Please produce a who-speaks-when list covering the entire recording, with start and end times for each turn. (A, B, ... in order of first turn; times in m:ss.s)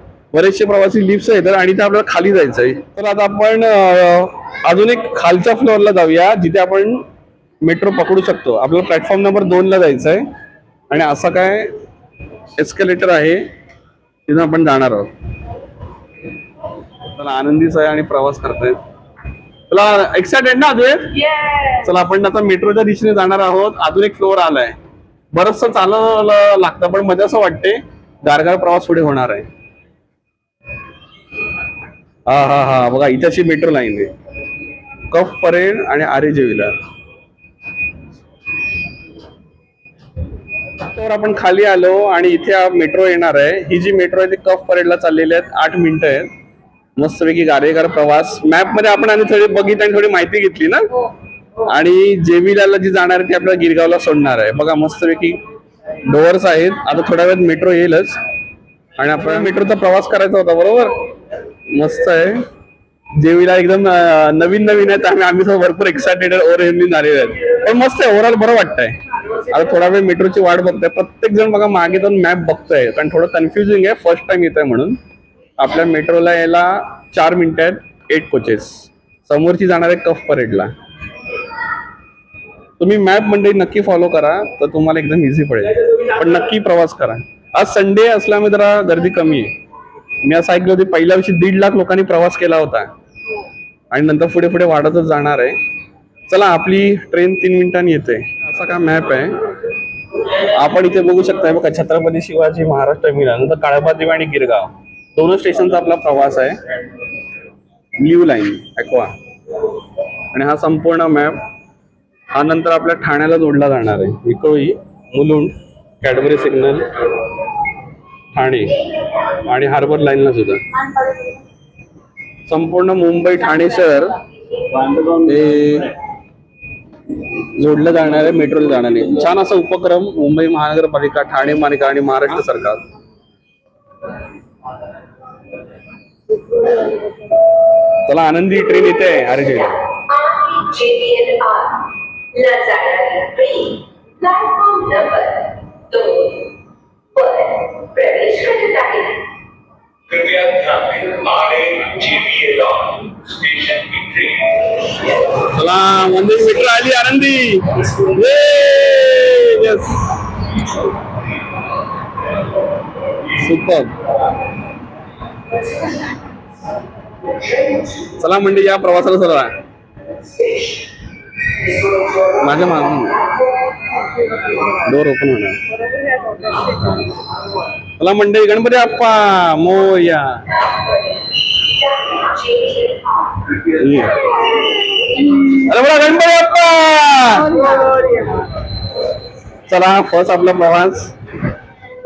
0:00.3-0:07.0 A
0:07.6-0:10.2 A
0:10.9-0:11.7 A
0:12.6-0:13.4 A
0:14.3-0:15.1 A
0:17.2-0:18.8 A
0:19.7-0:21.2 A
0:21.3-0:21.8 B
0:21.8-0:24.8 A
0:25.3-0:29.5 A
0:32.3-0:34.1 A
0:35.1-0:36.8 A
0:40.9-0:46.3 A
0:47.0-0:50.8 A
0:51.7-0:55.4 A
0:56.1-0:58.2 A
0:59.0-1:01.0 A
1:01.7-1:02.4 A
1:03.2-1:09.0 A
1:09.5-1:15.0 A
1:15.6-1:20.7 A
1:22.8-1:29.5 A
1:30.2-1:32.9 A
1:33.9-1:35.6 A
1:36.3-1:39.4 A
1:40.6-1:46.6 A
1:48.0-1:49.1 A
1:50.3-1:51.4 A
1:52.3-1:56.9 A
1:58.3-1:58.8 A
1:59.4-2:00.6 A
2:02.5-2:04.2 A
2:05.2-2:05.9 A
2:07.6-2:12.8 A
2:18.1-2:19.8 A
2:20.0-2:26.5 C
2:27.1-2:29.3 C
2:30.1-2:34.6 D
2:35.4-2:40.1 A
2:43.3-2:43.9 A
2:48.2-2:49.5 A
2:52.4-2:53.2 A
2:54.7-2:55.6 A
2:55.7-2:56.6 B
2:56.7-2:57.1 A
2:58.0-3:00.4 A
3:01.8-3:03.4 C
3:03.6-3:04.3 A
3:05.5-3:07.6 A
3:07.4-3:08.5 B
3:09.7-3:11.1 A